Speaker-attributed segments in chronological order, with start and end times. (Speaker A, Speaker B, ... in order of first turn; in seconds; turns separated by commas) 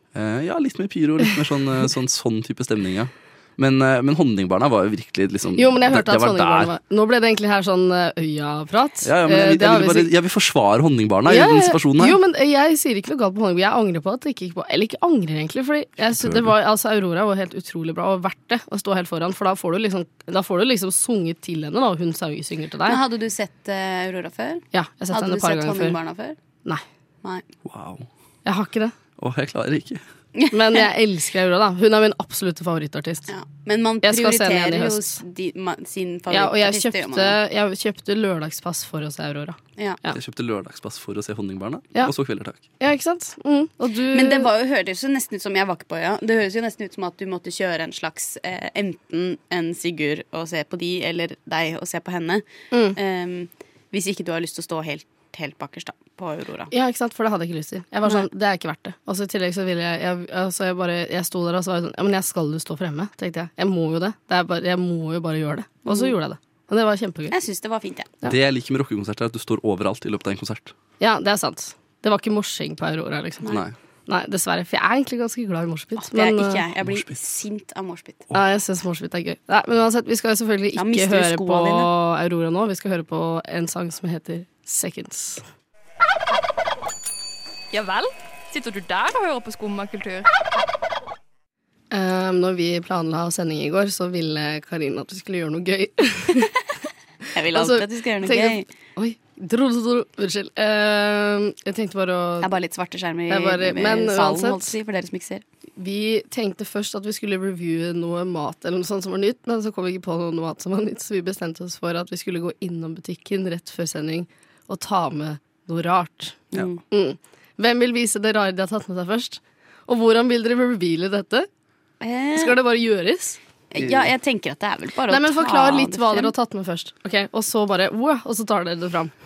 Speaker A: 0.1-6.7, Speaker B: 5.5-10.1, Speaker A: 9.0-12.2, Speaker B: 11.3-23.0, Speaker A: 16.0-16.5, Speaker C: 22.9-26.4, Speaker B: 24.7-26.0, Speaker A: 27.6-28.1, Speaker B: 28.4-28.9, Speaker A: 29.2-30.0, Speaker C: 30.3-30.9, Speaker B: 30.5-33.3, Speaker C: 33.3-37.4, Speaker B: 34.0-35.2, Speaker B: 36.3-40.2, Speaker A: 40.1-42.6, Speaker B: 42.8-44.5, Speaker C: 44.1-52.4, Speaker B: 52.7-53.0, Speaker C: 53.0-56.7, Speaker B: 56.7-67.3, Speaker C: 65.9-66.1, Speaker C: 67.3-68.1, Speaker A: 68.2-70.7, Speaker B: 71.0-73.5, Speaker A: 73.5-73.7, Speaker B: 74.1-76.6, Speaker C: 76.0-78.3, Speaker A: 76.8-77.2, Speaker B: 78.3-85.4, Speaker C: 80.8-81.9, Speaker D: 87.7-90.3, Speaker B: 91.9-96.5, Speaker C: 97.3-98.7, Speaker B: 97.5-102.5, Speaker C: 102.4-105.4, Speaker B: 103.3-104.7, Speaker B: 105.8-116.4, Speaker C: 116.5-116.8, Speaker B: 116.9-121.5, Speaker C: 122.0-122.6, Speaker B: 122.3-123.4, Speaker C: 123.7-126.3, Speaker A: 123.8-124.1, Speaker B: 125.1-129.1